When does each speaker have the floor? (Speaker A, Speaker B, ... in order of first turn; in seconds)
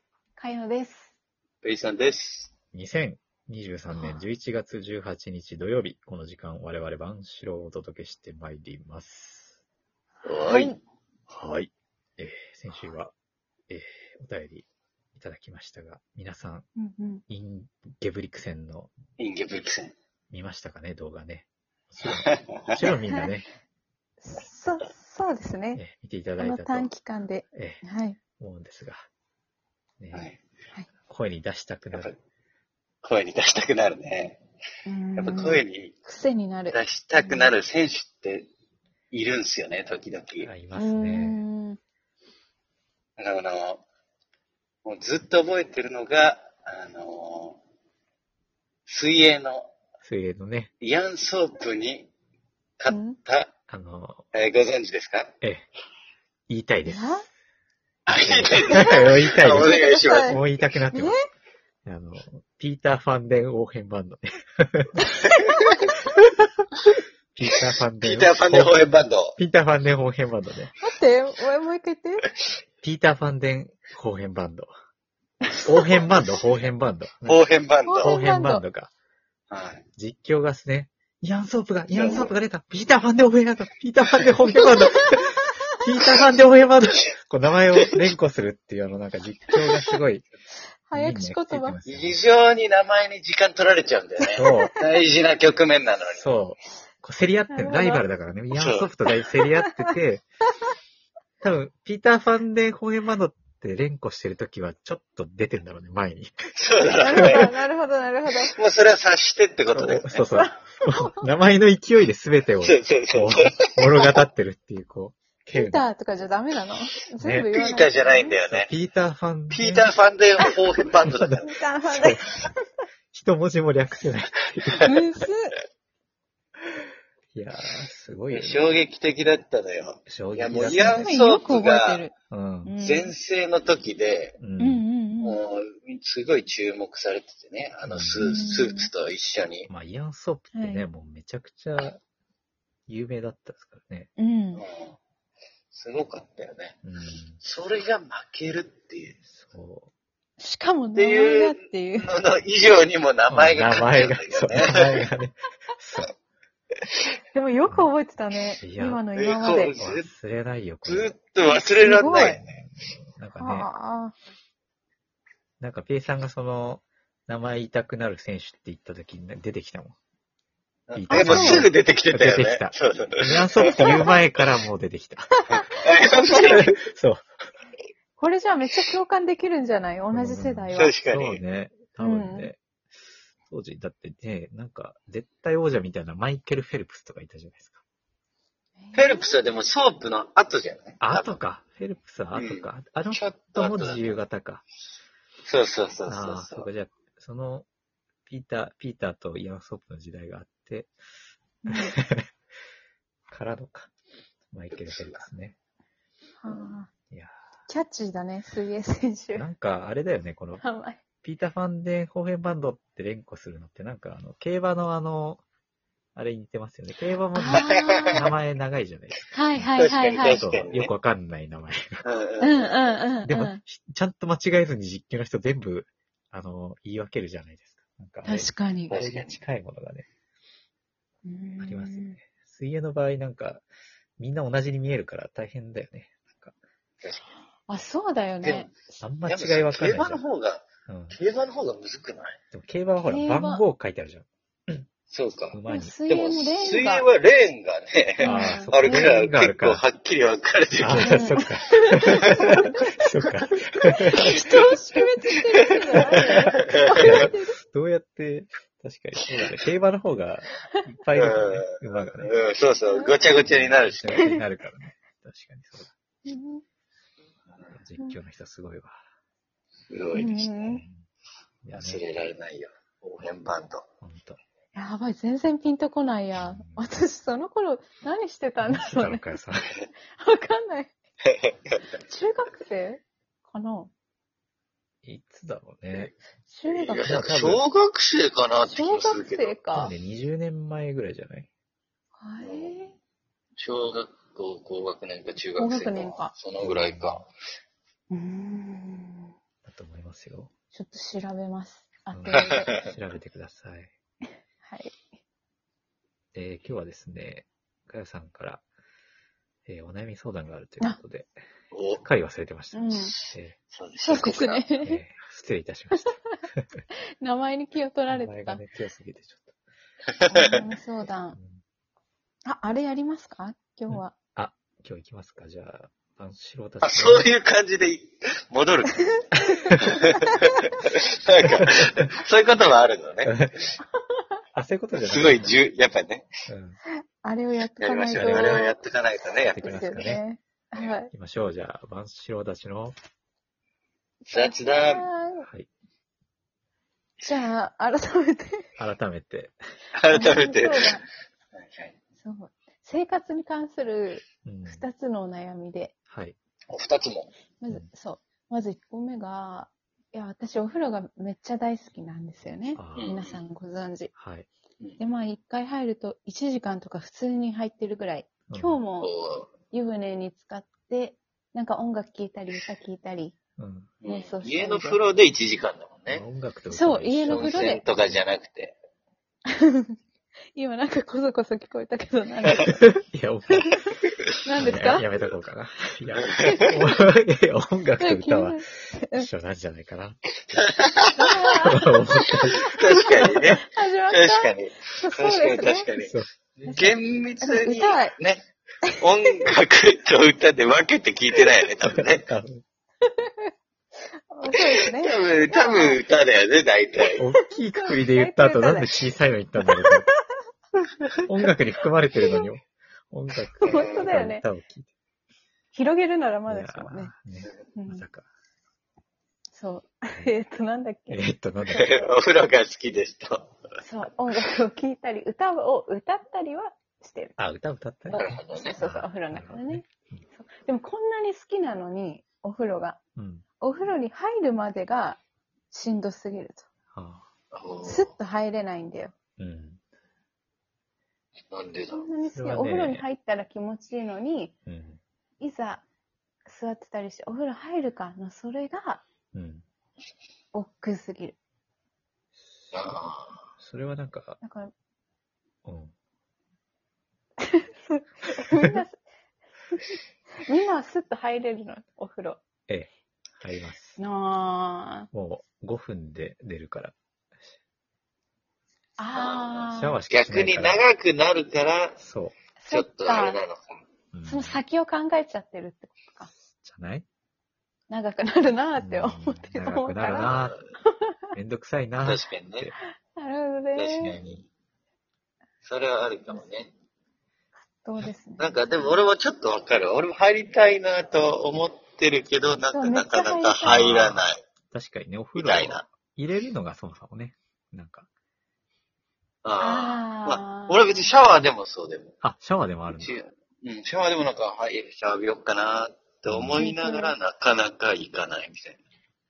Speaker A: 0.4-1.1, 3.9-4.2, 10.2-10.8, 16.8-17.2, 24.2-25.8, 26.4-28.2, 34.9-37.5, 40.7-41.8, 52.9-53.2, 56.9-57.2, 58.7-61.2, 65.2-65.6, 70.8-72.3, 77.9-78.6, 84.6-85.2, 90.9-91.8, 94.3-94.7, 97.5-98.0, 107.0-108.5, 110.3-111.2, 115.5-118.4, 121.4-122.5, 124.8-125.5, 131.0-132.1, 132.6-133.1, 134.6-135.4, 138.2-138.9, 140.5-140.8, 144.2-144.6, 150.4-152.2, 157.3-159.8, 161.4-162.4, 163.4-164.1, 171.1-171.7, 173.6-174.2, 175.6-176.7, 178.2-180.9, 182.0-182.5, 188.8-189.3, 201.6-201.9, 206.4-206.9, 207.7-209.5, 210.6-211.0, 217.3-218.3, 219.3-220.4, 222.4-223.6, 228.2-228.9, 231.2-232.2, 237.7-239.0, 243.0-243.6, 245.7-247.1, 248.2-249.1, 250.9-252.7, 253.9-257.6, 262.9-263.2, 264.1-264.4, 266.2-266.6, 270.1-270.8, 274.7-279.3, 279.9-280.9, 282.0-283.9, 286.5-287.3, 288.6-289.9, 292.2-292.9, 295.6-296.3, 298.1-299.3, 300.7-302.7, 304.6-305.0, 312.7-313.1, 314.0-315.0, 317.2-318.6, 320.3-321.4, 322.4-324.1, 337.2-338.8, 339.5-341.1, 344.2-345.5, 347.2-348.7, 350.1-351.0, 352.2-355.9, 357.6-364.1, 365.0-369.1, 369.7-373.3, 374.0-375.0, 376.7-377.8, 379.5-379.9, 380.5-382.9, 384.4-385.1, 386.4-386.9, 388.0-389.3, 391.1-396.0, 396.6-398.1, 403.0-403.5, 404.3-406.0, 407.2-409.1, 409.8-410.1, 413.6-414.4, 415.7-417.1, 417.8-418.0, 419.5-422.1, 423.8-427.4, 428.1-433.0, 433.6-435.2, 435.7-436.6, 437.8-439.1, 441.9-444.5, 445.4-445.8, 446.4-449.0, 450.5-451.4, 454.4-454.7, 457.4-459.0, 460.4-462.4, 464.0-465.1, 469.0-470.0, 472.6-473.4, 474.2-476.3, 477.9-481.1, 483.1-484.2, 487.8-489.0, 492.7-494.0, 499.6-501.1, 506.5-507.1
Speaker B: 1.6-2.5, 10.2-10.7, 19.2-19.9, 22.2-22.8, 30.1-30.4, 33.0-34.4, 35.1-35.9, 36.7-38.5, 39.1-40.5, 43.2-43.8, 44.8-47.6, 48.9-49.7, 50.8-52.1, 52.8-53.5, 54.3-55.3, 58.1-60.4, 68.0-69.4, 77.2-78.2, 79.5-79.8, 81.9-82.3, 91.8-96.3, 98.5-98.9, 106.5-107.5, 108.5-110.2, 112.6-114.2, 117.5-118.7, 119.5-121.5, 128.3-132.1, 132.8-134.4, 135.2-139.7, 144.6-145.0, 145.7-146.8, 147.4-149.2, 150.9-155.0, 159.1-160.1, 160.8-162.6, 170.9-174.2, 175.5-176.8, 180.7-181.4, 188.9-191.4, 192.3-194.2, 195.4-196.7, 204.7-205.2, 217.5-218.2, 219.8-220.9, 222.0-222.9, 228.9-229.4, 237.0-237.4, 238.4-238.7, 239.2-242.4, 245.1-251.4, 252.1-252.6, 254.1-254.8, 255.7-257.3, 261.2-264.2, 269.9-270.7, 271.7-273.8, 281.2-281.8, 286.7-289.6, 292.4-292.7, 293.6-297.3, 302.3-302.8, 311.7-312.0, 313.7-314.6, 320.2-320.6, 326.8-329.2, 329.9-333.3, 335.0-336.3, 337.8-340.1, 344.3-345.1, 349.9-351.0, 351.5-351.9, 356.7-357.3, 362.9-363.4, 369.0-369.5, 374.0-376.2, 377.3-378.8, 390.5-391.3, 392.5-398.4, 399.0-402.3, 404.7-407.2, 413.7-414.1, 421.7-423.5, 428.1-428.8, 437.5-438.1, 441.5-442.1, 452.7-453.4, 469.1-469.5, 470.1-472.0, 472.7-473.8, 480.2-480.6, 482.0-482.7, 483.8-484.5, 485.6-486.7, 488.4-494.4, 495.4-495.9, 499.4-502.2, 502.9-508.8
Speaker C: 2.7-9.6, 11.3-13.1, 13.7-16.7, 17.3-18.9, 20.3-23.5, 25.7-26.9, 27.5-27.8, 28.4-29.1, 30.0-30.3, 31.1-32.1, 40.4-41.4, 50.0-50.7, 53.7-54.2, 55.4-55.7, 56.5-57.2, 58.1-61.2, 61.8-65.0, 67.3-70.7, 72.8-74.7, 75.6-77.4, 78.0-78.9, 80.0-90.3, 90.9-92.2, 94.3-94.7, 96.1-100.2, 101.4-106.5, 107.0-107.5, 109.7-115.9, 117.2-117.6, 118.5-119.9, 121.0-122.3, 123.1-125.0, 127.3-128.7, 130.1-131.1, 132.3-132.8, 134.4-134.8, 137.8-138.2, 139.7-142.0, 142.9-144.1, 146.8-147.4, 149.2-149.9, 153.3-156.1, 157.7-157.9, 158.6-159.0, 159.8-161.2, 162.5-163.7, 165.6-170.0, 170.9-175.3, 176.5-177.2, 180.1-182.6, 183.5-187.8, 191.0-194.6, 196.1-197.7, 198.3-200.9, 201.7-202.3, 203.3-203.9, 204.5-205.6, 207.1-207.3, 209.3-210.6, 211.2-215.4, 216.1-219.8, 220.3-222.0, 223.2-230.1, 231.6-233.6, 234.2-236.5, 239.0-240.2, 240.9-241.2, 242.5-244.8, 245.5-245.9, 248.2-249.8, 250.8-254.4, 256.9-262.3, 263.4-265.9, 267.7-269.0, 270.7-271.1, 271.6-272.0, 274.0-274.4, 276.3-276.9, 278.6-279.7, 285.0-286.1, 287.0-287.6, 289.7-291.5, 296.6-297.2, 299.6-300.5, 302.1-303.9, 306.3-308.6, 309.6-311.3, 312.0-313.6, 314.8-316.6, 318.1-319.5, 321.4-321.6, 323.9-327.3, 329.4-330.0, 333.2-333.5, 334.5-335.5, 336.5-336.8, 339.5-340.2, 341.1-342.9, 348.8-349.5, 354.4-354.9, 356.1-356.4, 362.7-363.1, 364.1-364.5, 368.5-368.8, 373.6-373.9, 376.1-377.8, 382.8-383.8, 384.6-390.7, 391.5-393.3, 396.0-396.3, 401.9-402.6, 407.2-410.1, 411.2-414.9, 416.5-418.3, 421.1-421.9, 427.4-430.2, 433.1-433.4, 436.9-437.3, 439.4-439.8, 442.3-443.0, 444.7-445.0, 449.3-449.6, 452.5-454.4, 455.6-455.9, 462.7-464.0, 465.1-466.9, 469.6-470.8, 472.0-472.4, 474.1-474.6, 476.6-477.0, 478.8-480.6, 481.3-482.7, 493.7-498.1, 502.2-503.2, 506.3-506.7